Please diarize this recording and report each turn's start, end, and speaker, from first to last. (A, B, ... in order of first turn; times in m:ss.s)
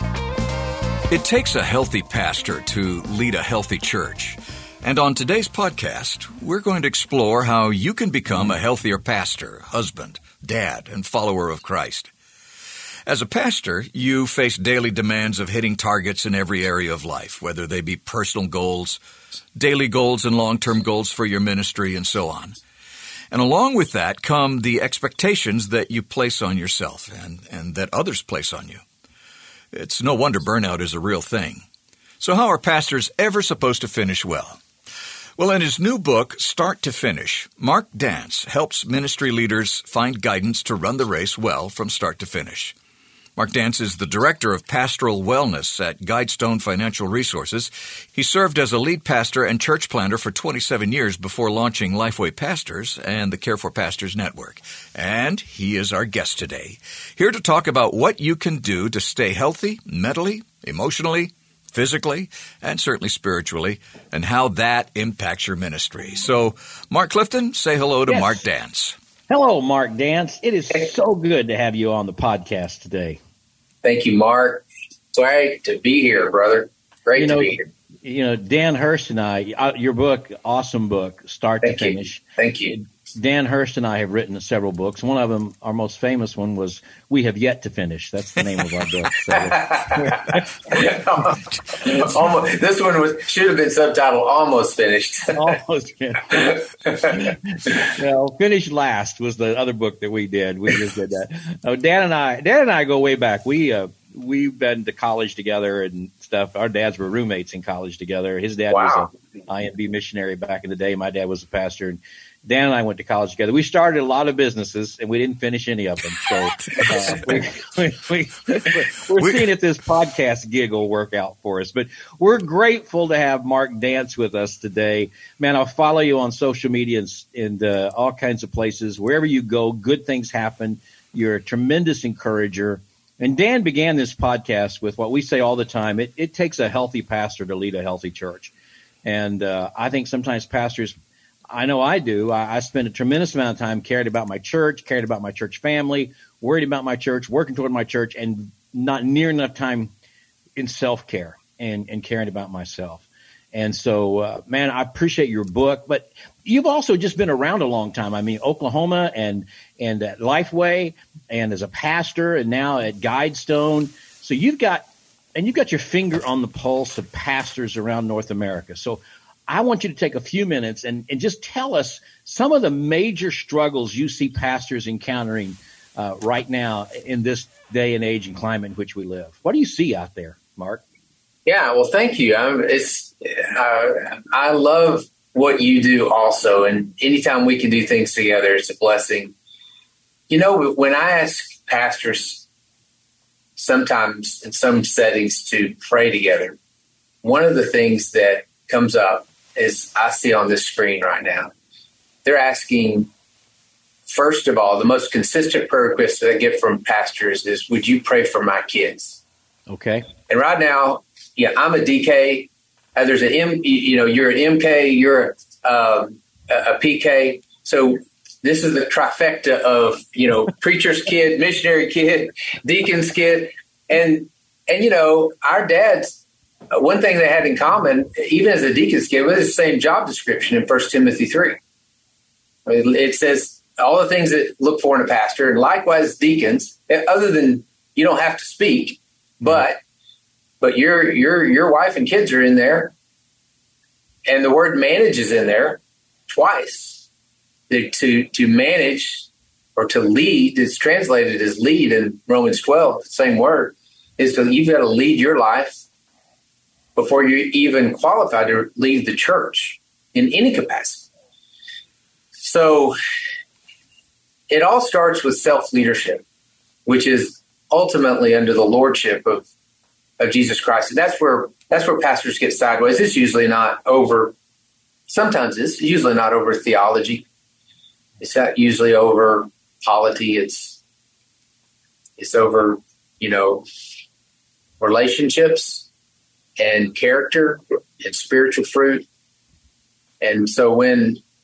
0:01.1-0:12.1 A
0:13.0-0:19.0 A
0:19.6-0:22.6 A
0:23.3-0:28.8 A
0:29.7-0:31.6 A
0:32.2-0:34.6 A
0:35.4-0:42.7 A
0:43.4-1:09.0 A
1:08.1-1:08.4 B
1:09.3-1:13.2 B
1:13.8-1:17.7 C
1:17.2-1:22.2 B
1:21.6-1:22.8 C
1:23.1-1:30.5 B
1:29.5-1:35.4 C
1:35.3-1:36.5 B
1:36.3-1:37.7 C
1:37.0-2:18.5 B
1:48.7-1:49.1 C
2:19.0-2:20.9 B
2:21.5-2:29.9 B
2:30.6-3:00.8 B
3:01.4-3:09.3 C
3:10.3-3:12.5 C
3:13.6-3:16.6 C
3:17.2-3:21.5 C
3:22.2-3:23.1 C
3:24.1-3:29.2 C
3:29.7-3:30.1 B
3:30.3-3:46.2 C
3:46.7-3:51.6 C
3:52.6-3:59.8 C
4:00.6-4:02.9 C
4:04.2-4:07.1 C
4:07.7-4:15.8 C
4:17.0-4:21.1 C
4:22.4-4:23.0 C
4:24.5-4:26.2 C
4:26.8-4:29.5 C
4:30.2-4:34.3 C
4:35.1-4:37.2 C
4:38.2-4:40.8 C
4:42.2-4:43.6 C
4:44.8-4:45.9 C
4:46.6-4:49.0 C
4:50.2-4:51.2 C